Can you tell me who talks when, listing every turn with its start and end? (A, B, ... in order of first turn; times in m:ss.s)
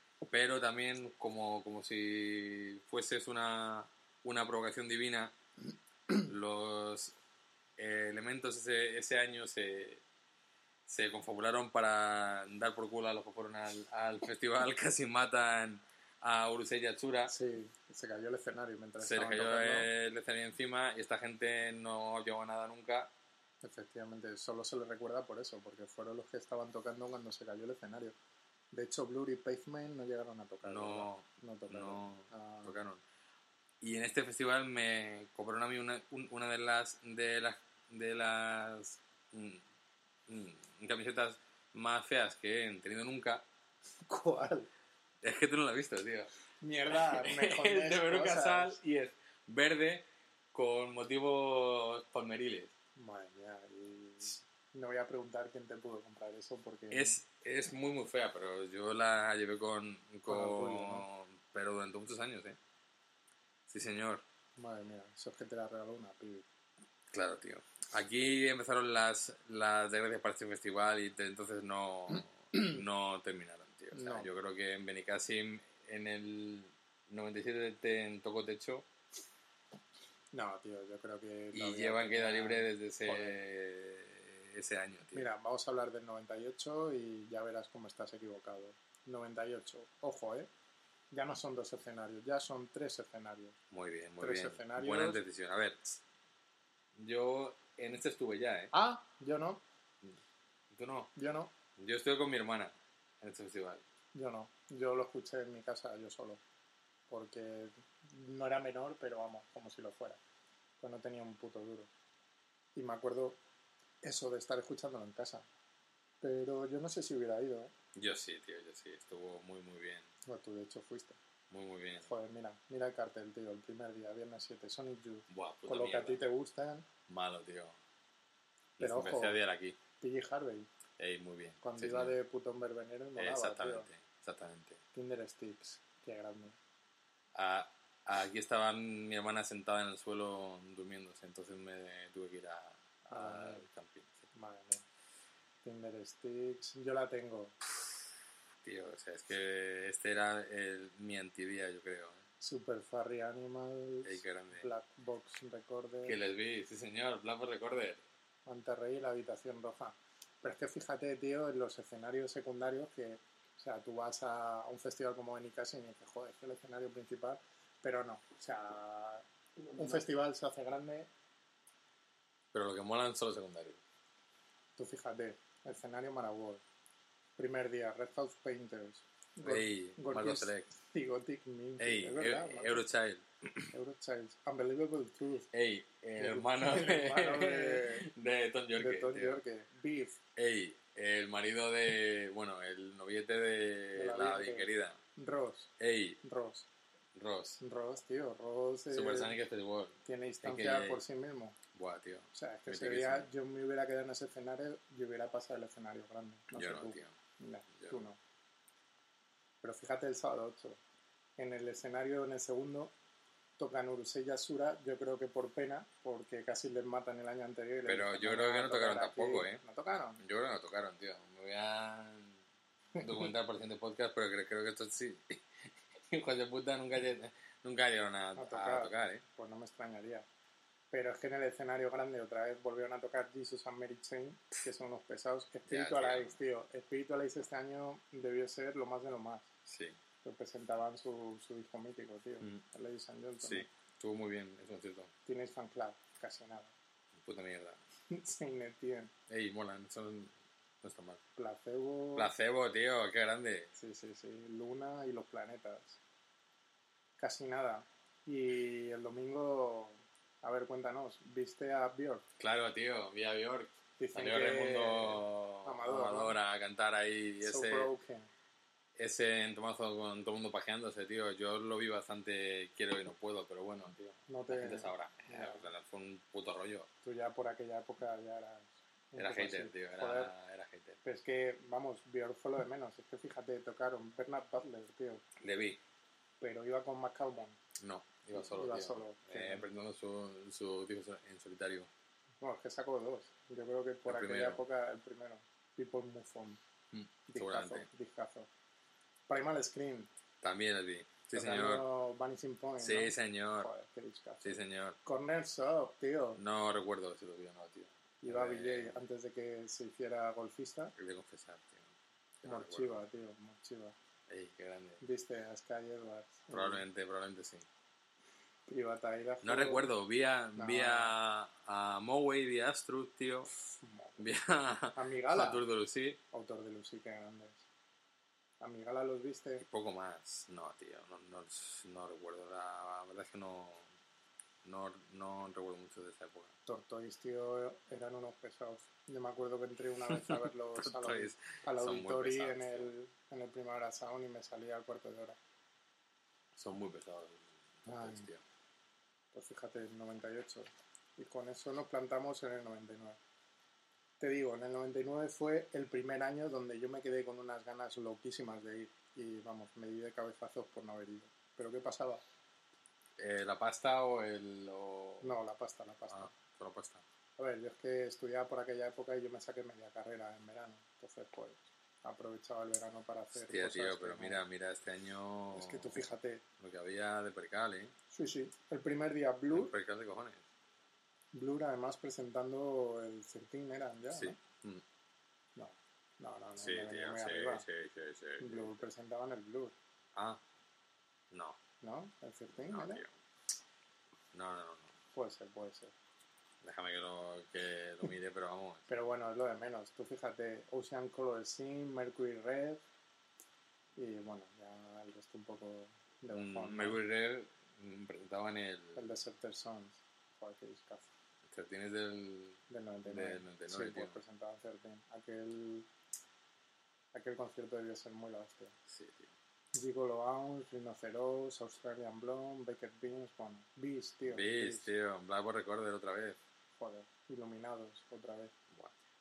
0:00.2-0:05.3 A
0:06.1-0:07.1 A
0:07.8-0:10.0 A
0:10.9-0:17.3 A
0:17.3-0:19.9 B
0:19.0-0:23.1 A
0:23.6-0:28.1 B
0:28.7-0:32.8 B
0:30.6-0:33.0 A
0:33.8-0:39.6 A
0:40.3-0:43.4 A
0:44.0-0:44.7 B
0:45.2-0:46.3 A
0:46.6-0:48.8 B
0:46.9-0:52.7 A
0:53.0-0:57.2 B
0:56.9-1:02.6 A
1:00.3-1:01.0 B
1:03.7-1:04.2 A
1:04.6-1:06.4 B
1:07.1-1:18.8 A
1:13.9-1:14.3 B
1:20.3-1:23.4 B
1:21.5-1:25.2 A
1:25.1-1:30.5 B
1:31.1-1:33.6 B
1:33.7-1:36.0 A
1:34.2-1:35.2 B
1:37.0-1:38.7 A
1:38.7-1:39.6 B
1:40.7-1:41.1 A
1:41.1-1:41.5 B
1:41.8-1:43.8 A
1:44.1-1:46.4 B
1:47.1-1:50.2 B
1:50.8-1:51.9 B
1:52.7-1:53.4 B
1:54.0-1:55.4 B
1:56.2-1:57.7 B
1:57.9-2:00.1 A
2:00.2-2:01.2 B
2:01.5-2:02.1 A
2:02.0-2:06.9 B
2:05.3-2:06.2 A
2:07.1-2:07.8 A
2:08.8-2:09.8 A
2:08.8-2:09.4 B
2:10.0-2:10.7 B
2:11.0-2:12.1 A
2:11.6-2:13.9 B
2:13.2-2:14.8 A
2:14.9-2:16.6 B
2:17.3-2:24.3 A
2:23.0-2:23.6 B
2:24.3-2:24.8 B
2:25.6-2:27.5 B
2:28.6-2:32.2 A
2:32.4-2:36.2 B
2:34.0-2:34.7 A
2:36.0-2:38.0 A
2:38.4-2:51.1 B
2:52.5-2:53.8 A
2:54.8-2:56.6 B
2:57.4-3:02.8 B
2:59.4-3:00.7 A
3:01.8-3:03.7 A
3:03.7-3:05.5 B
3:05.5-3:09.4 A
3:06.2-3:08.1 B
3:08.8-3:10.2 B
3:10.4-3:15.0 A
3:13.9-3:15.7 B
3:15.8-3:16.2 A
3:16.2-3:16.6 B
3:17.1-3:17.6 A
3:17.6-3:19.4 B
3:18.9-3:21.0 A
3:20.0-3:21.6 B
3:21.7-3:23.3 A
3:22.3-3:28.2 B
3:26.5-3:27.1 A
3:29.6-3:30.8 B
3:31.4-3:32.9 B
3:33.6-3:40.2 B
3:37.8-3:39.6 A
3:40.2-3:42.4 A
3:43.0-3:49.2 A
3:48.4-3:50.2 B
3:50.9-3:59.5 B
3:55.7-3:56.4 A
3:59.6-4:00.0 A
4:00.2-4:03.7 B
4:03.4-4:05.1 A
4:05.2-4:06.7 B
4:07.2-4:07.8 A
4:08.1-4:09.1 B
4:09.3-4:11.2 A
4:11.4-4:12.3 B
4:12.2-4:13.7 A
4:13.8-4:16.0 B
4:17.2-4:22.2 B
4:22.4-4:27.9 A
4:24.0-4:26.4 B
4:27.4-4:28.3 B
4:29.0-4:36.9 A
4:34.3-4:35.7 B
4:37.0-4:40.3 B
4:39.2-4:41.0 A
4:41.0-4:45.2 B
4:45.4-4:45.8 A
4:46.4-4:47.6 B
4:47.8-4:51.9 A
4:48.4-4:49.7 B
4:52.4-4:56.6 B
4:54.0-4:54.6 A
4:56.9-4:57.9 A
4:57.3-4:58.5 B
4:59.3-5:00.1 B
5:00.4-5:01.8 A
5:01.3-5:06.4 B
5:02.8-5:03.7 A
5:04.4-5:05.0 A
5:06.4-5:09.0 A
5:08.2-5:10.9 B
5:11.0-5:11.9 A
5:12.4-5:13.0 A
5:12.4-5:13.9 B
5:14.3-5:15.0 A
5:15.0-5:16.8 B
5:16.5-5:17.6 A
5:18.7-5:19.9 B
5:19.4-5:23.5 A
5:20.6-5:21.1 B
5:23.8-5:24.3 B
5:24.2-5:26.2 A
5:24.9-5:25.6 B
5:26.3-5:27.6 B
5:28.6-5:29.6 B
5:29.6-5:33.8 A
5:34.6-5:36.5 A
5:36.6-5:45.4 B
5:40.1-5:42.9 A
5:46.6-5:48.4 A
5:47.8-5:48.3 B
5:49.3-5:53.2 B
5:54.2-6:02.2 B
6:03.2-6:05.3 A
6:05.2-6:06.3 B
6:06.1-6:07.0 A
6:07.4-6:14.4 B
6:13.3-6:16.0 A
6:15.5-6:16.4 B
6:16.6-6:17.9 A
6:18.1-6:19.7 B
6:19.5-6:20.4 A
6:21.3-6:24.4 B
6:24.1-6:24.8 A
6:25.6-6:27.6 B
6:26.6-6:28.8 A
6:28.4-6:29.7 B
6:30.1-6:30.4 A
6:31.3-6:31.6 A
6:31.8-6:33.0 B
6:32.7-6:33.1 A
6:34.3-6:34.9 A
6:35.1-6:35.9 B
6:36.6-6:38.9 A
6:38.9-6:42.8 B
6:44.0-6:47.0 B
6:46.3-6:49.0 A
6:48.9-6:51.1 B
6:51.4-6:54.2 A
6:52.7-6:55.9 B
6:57.1-6:58.7 B
6:58.9-6:59.3 A
6:59.7-7:04.9 B
7:04.3-7:06.4 A
7:06.8-7:08.5 B